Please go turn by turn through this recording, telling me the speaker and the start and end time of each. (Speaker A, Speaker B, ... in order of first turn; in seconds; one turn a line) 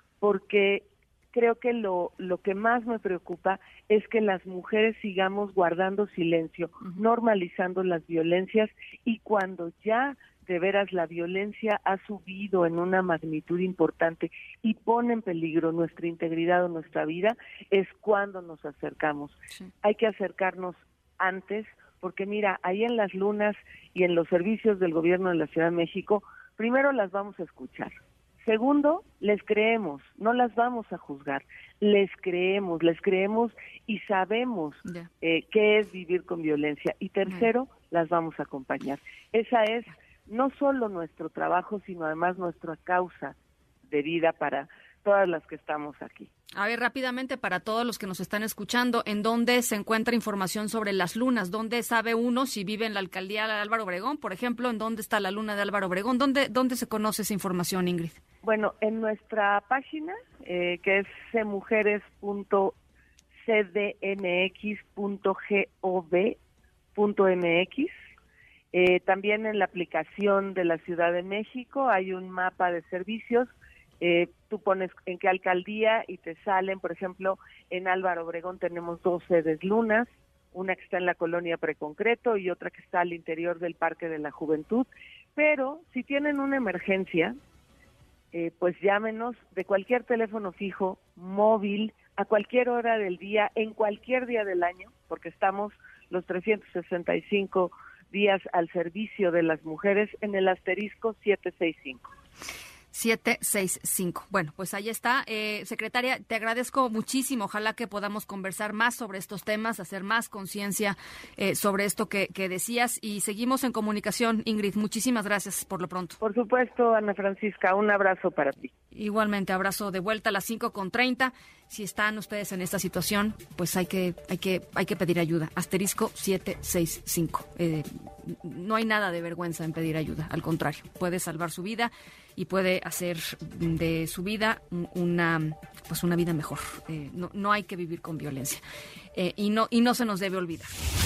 Speaker A: 0.2-27.9
Speaker A: 28.4-43.3
Speaker A: 43.9-46.3
Speaker B: 46.5-58.2
Speaker A: 58.4-62.8
Speaker A: 63.4-66.4
Speaker A: 66.9-67.9
Speaker A: 68.7-87.3
Speaker A: 88.3-102.1
Speaker B: 102.9-116.2
Speaker A: 116.2-118.7
Speaker B: 118.9-138.6
Speaker B: 139.1-140.7